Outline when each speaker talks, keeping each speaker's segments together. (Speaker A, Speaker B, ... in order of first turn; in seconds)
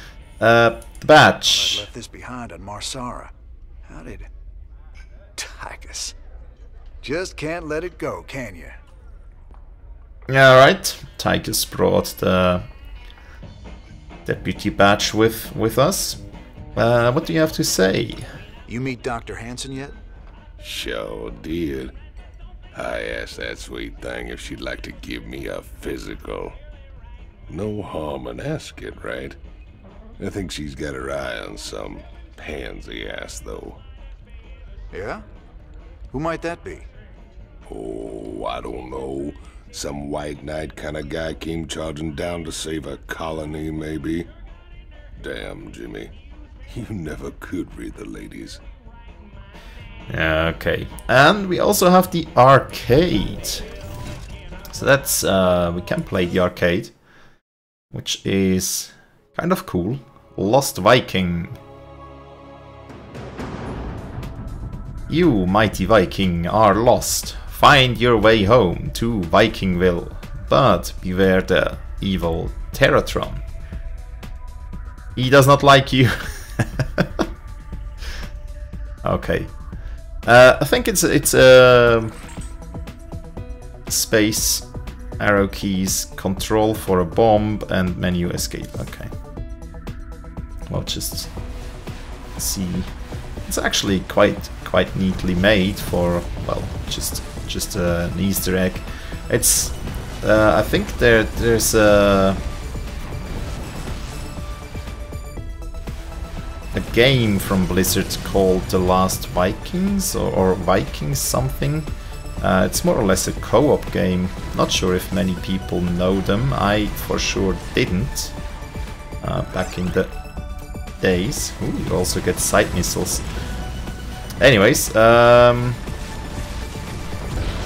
Speaker A: 0.4-1.9, 10.3-12.7, 14.2-16.2, 16.8-18.3, 50.1-53.6, 54.7-56.9, 57.9-61.6, 65.1-73.4, 75.2-77.2, 79.0-79.5, 80.2-82.1, 83.9-84.7, 85.2-89.1, 90.7-91.3, 92.4-92.9, 93.5-102.4, 106.7-111.9, 112.4-118.3, 119.2-120.1, 121.0-123.2, 124.4-125.8
Speaker B: 1.4-3.3, 3.8-4.3, 5.3-6.1, 7.0-8.8, 18.7-20.0, 34.9-35.2, 36.1-36.9
Speaker C: 20.6-21.9, 22.7-26.6, 27.5-29.4, 30.2-33.8, 37.6-44.3, 45.2-46.1, 46.7-48.6